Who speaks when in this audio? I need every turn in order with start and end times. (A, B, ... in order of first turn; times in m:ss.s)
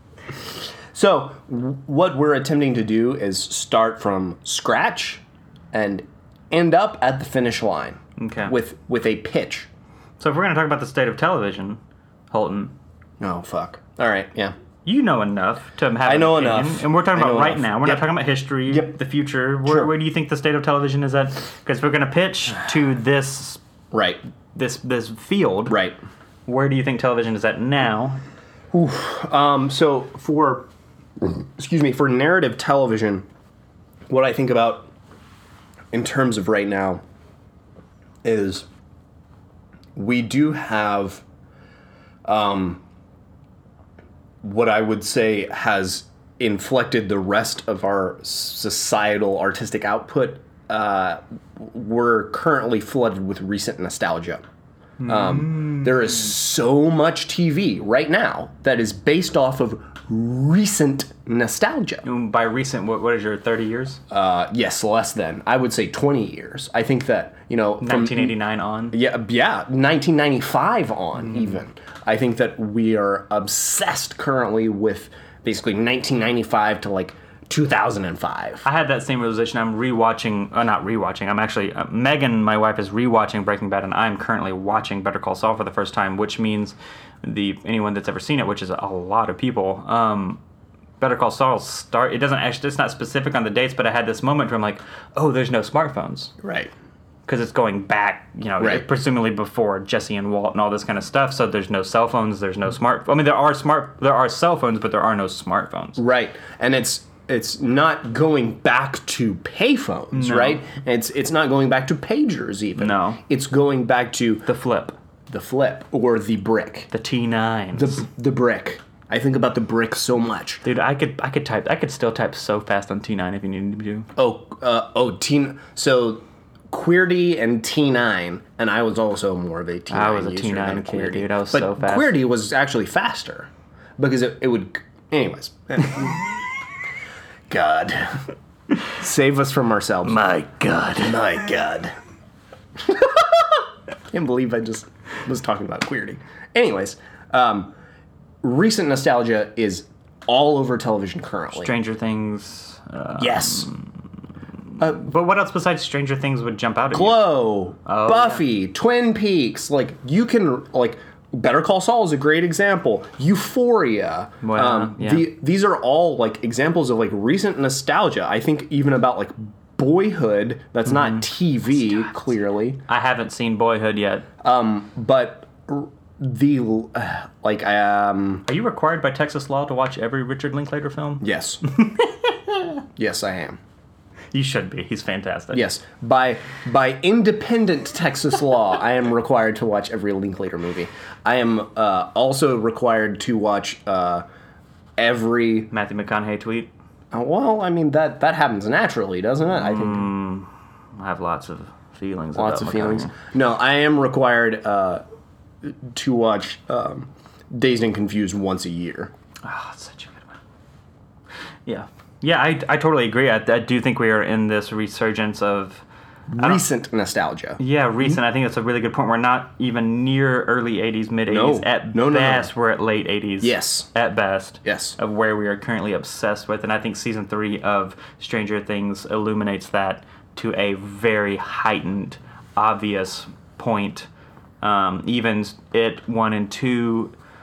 0:00.9-0:09.7 A
0:08.2-0:08.5 B
0:10.2-0:11.8 B
0:12.3-0:12.7 B
0:13.2-0:14.5 A
0:14.8-0:23.6 B
0:16.0-0:18.1 A
0:18.7-0:19.0 A
0:19.6-0:19.9 A
0:23.9-0:24.2 A
0:24.6-0:25.8 B
0:25.7-0:26.0 A
0:26.5-0:28.2 B
0:28.7-0:30.7 A
0:31.2-0:33.2 A
0:34.1-0:34.9 A
0:35.9-0:37.0 A
0:38.2-0:38.6 A
0:40.0-0:41.2 A
0:42.2-0:42.8 A
0:44.4-0:54.4 A
0:55.0-0:56.1 B
0:55.0-1:02.0 A
1:02.0-1:04.0 B
1:04.1-1:08.4 A
1:07.8-1:08.9 B
1:08.9-1:18.6 A
1:11.3-1:11.6 B
1:18.6-1:30.4 B
1:31.0-1:36.3 B
1:36.4-1:36.7 A
1:37.2-1:46.0 B
1:46.0-1:54.5 A
1:50.1-1:50.6 B
1:52.8-1:53.2 B
1:54.5-1:55.0 B
1:55.3-1:56.9 A
1:56.9-1:58.0 B
1:57.7-2:00.6 A
2:00.6-2:04.1 B
2:04.2-2:16.2 A
2:09.9-2:12.2 B
2:17.5-2:18.2 A
2:18.9-2:20.2 A
2:20.0-2:21.3 B
2:21.0-2:21.9 A
2:22.9-2:23.2 A
2:24.1-2:27.7 A
2:28.4-2:31.7 A
2:31.5-2:33.9 B
2:33.2-2:33.7 A
2:34.8-2:37.3 B
2:36.9-2:52.8 A
2:37.9-2:38.4 B
2:44.4-2:45.3 B
2:50.9-2:51.2 B
2:52.9-2:54.3 B
2:54.4-2:58.5 A
2:58.5-3:02.8 B
3:01.2-3:01.6 A
3:03.0-3:03.6 A
3:04.3-3:05.6 B
3:05.5-3:14.2 A
3:15.0-3:15.7 A
3:15.7-3:16.7 B
3:17.1-3:20.1 A
3:19.5-3:23.1 B
3:22.4-3:25.0 A
3:25.6-3:29.1 A
3:29.4-3:30.4 B
3:31.6-3:35.8 B
3:36.3-3:37.6 A
3:37.6-3:54.1 B
3:41.3-3:42.5 A
3:43.4-3:43.9 A
3:44.6-3:45.0 A
3:54.6-3:57.1 B